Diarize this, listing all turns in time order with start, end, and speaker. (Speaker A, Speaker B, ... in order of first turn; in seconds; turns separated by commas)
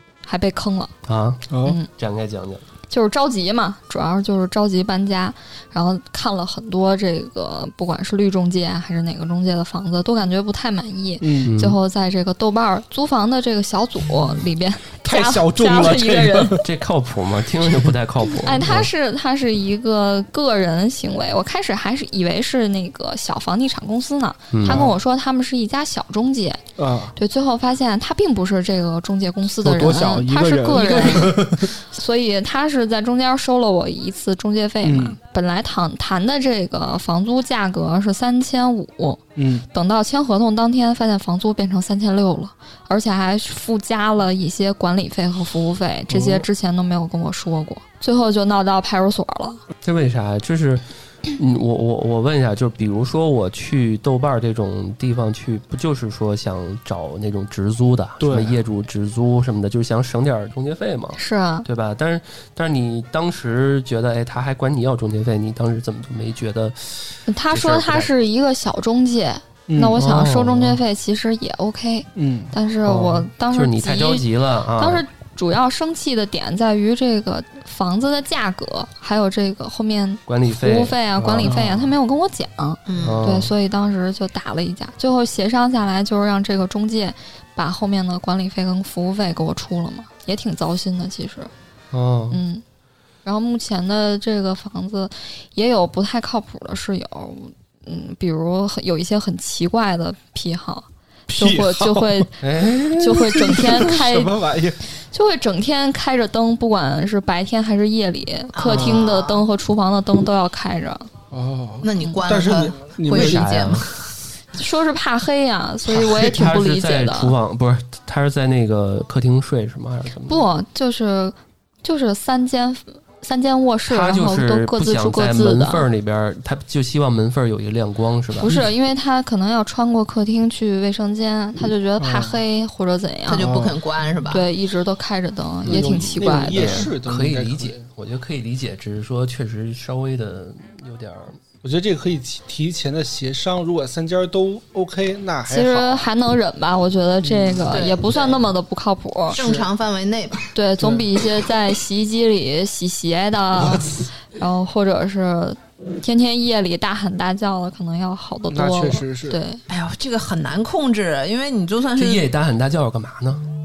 Speaker A: 0.2-0.9, Speaker B: 1.1-2.6, Speaker C: 1.5-1.8, Speaker A: 1.6-1.9, Speaker A: 2.9-16.6, Speaker C: 11.2-11.5, Speaker B: 11.5-11.8, Speaker C: 15.0-16.7, Speaker B: 16.6-18.9, Speaker A: 18.4-26.6, Speaker B: 24.5-24.9, Speaker C: 24.7-24.9, Speaker C: 26.8-27.2, Speaker A: 27.2-49.6, Speaker C: 29.6-31.8, Speaker C: 34.8-35.2, Speaker C: 39.4-39.7, Speaker C: 46.1-46.5, Speaker B: 49.8-68.1, Speaker C: 58.2-58.6, Speaker A: 61.2-61.7, Speaker A: 67.3-91.5, Speaker C: 69.7-70.0, Speaker B: 70.0-70.8, Speaker C: 72.2-72.5, Speaker B: 72.8-75.0, Speaker B: 80.3-81.6, Speaker C: 81.4-81.9, Speaker D: 82.9-83.2, Speaker B: 83.0-83.5, Speaker B: 91.9-92.4, Speaker A: 92.3-92.6, Speaker A: 93.2-102.4, Speaker C: 101.3-102.3, Speaker B: 102.4-103.3, Speaker A: 103.0-104.4, Speaker C: 103.1-104.8, Speaker A: 104.9-111.1, Speaker D: 108.5-109.5, Speaker C: 108.7-109.0, Speaker C: 111.3-113.5, Speaker D: 111.8-114.2, Speaker B: 113.1-113.9, Speaker A: 114.5-117.3, Speaker B: 115.9-120.5, Speaker A: 120.3-125.9, Speaker B: 123.9-128.5, Speaker A: 128.4-133.5, Speaker C: 128.4-128.7, Speaker C: 132.0-132.4, Speaker D: 133.3-134.5, Speaker C: 133.3-133.8, Speaker A: 134.3-136.8, Speaker C: 135.7-137.8, Speaker B: 135.7-141.4, Speaker C: 141.6-146.1, Speaker A: 145.5-149.4, Speaker C: 147.2-147.7, Speaker D: 147.7-148.5, Speaker D: 149.3-150.5, Speaker C: 149.3-149.7, Speaker A: 150.5-159.6, Speaker C: 150.8-151.1, Speaker C: 153.6-154.0, Speaker C: 158.5-159.4, Speaker D: 159.7-162.3, Speaker B: 162.0-163.4